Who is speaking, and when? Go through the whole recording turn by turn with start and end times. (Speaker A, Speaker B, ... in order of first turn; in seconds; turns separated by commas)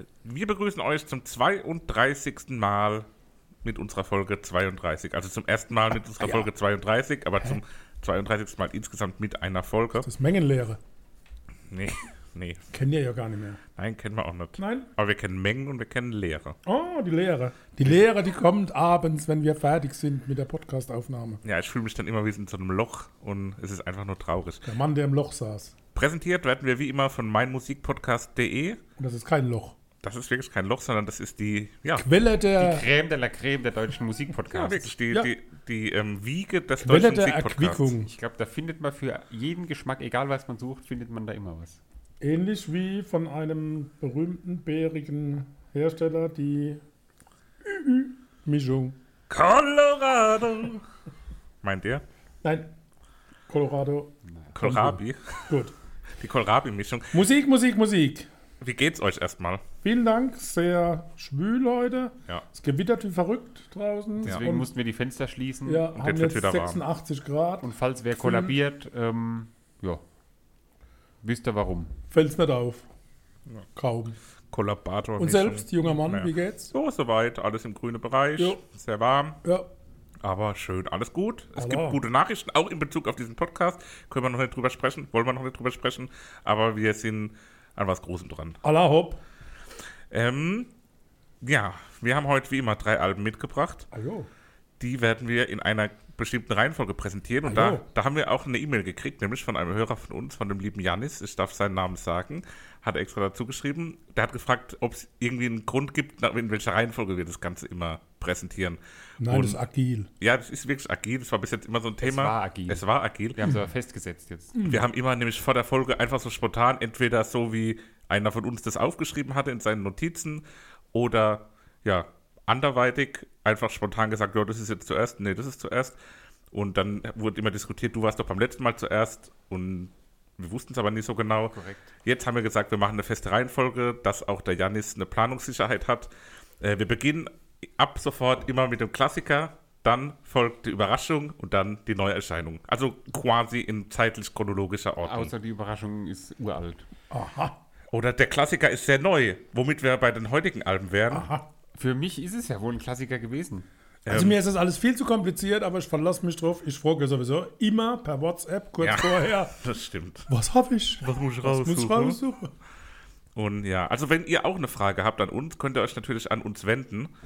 Speaker A: 0.2-3.1, Speaker A: 3.6-10.1, Speaker B: 6.2-6.5, Speaker B: 10.0-10.8, Speaker A: 11.7-12.6, Speaker B: 12.7-13.6, Speaker A: 13.8-16.6, Speaker B: 14.6-14.9, Speaker B: 16.6-21.4, Speaker A: 21.4-24.6, Speaker B: 24.6-25.7, Speaker A: 25.9-28.8, Speaker B: 29.0-29.8, Speaker A: 30.0-32.1, Speaker B: 32.0-32.9, Speaker C: 32.6-34.9, Speaker A: 34.5-37.9, Speaker B: 36.8-38.1, Speaker C: 38.0-41.8, Speaker B: 42.2-46.8, Speaker B: 47.6-49.0, Speaker A: 49.3-50.8, Speaker A: 51.6-52.0, Speaker B: 52.4-52.7, Speaker B: 53.5-55.7, Speaker A: 54.5-55.6, Speaker A: 56.1-57.2, Speaker B: 57.1-58.3, Speaker A: 58.6-59.6, Speaker B: 59.8-64.7, Speaker C: 64.2-65.8, Speaker B: 65.7-68.5, Speaker A: 65.9-66.8, Speaker C: 67.6-70.0, Speaker C: 71.2-71.9, Speaker B: 72.1-72.8, Speaker B: 73.8-74.2, Speaker A: 74.5-79.4, Speaker B: 75.2-76.7, Speaker A: 80.2-88.6, Speaker B: 81.5-82.0, Speaker B: 88.6-89.2, Speaker A: 90.1-90.7, Speaker A: 91.4-93.8, Speaker B: 93.9-94.3, Speaker A: 94.8-109.6, Speaker B: 97.4-97.8, Speaker B: 109.2-110.1, Speaker A: 110.2-113.5, Speaker C: 112.0-112.8, Speaker C: 113.4-114.6, Speaker B: 114.5-114.8, Speaker A: 114.6-126.0, Speaker A: 126.5-145.3, Speaker C: 131.5-131.9, Speaker C: 145.0-146.8, Speaker B: 147.1-147.6, Speaker A: 147.9-151.3, Speaker B: 151.1-151.4, Speaker C: 151.7-153.7, Speaker A: 154.0-154.4, Speaker B: 154.1-159.5, Speaker A: 158.8-160.3, Speaker B: 160.3-162.5, Speaker A: 161.0-162.2, Speaker A: 163.3-167.1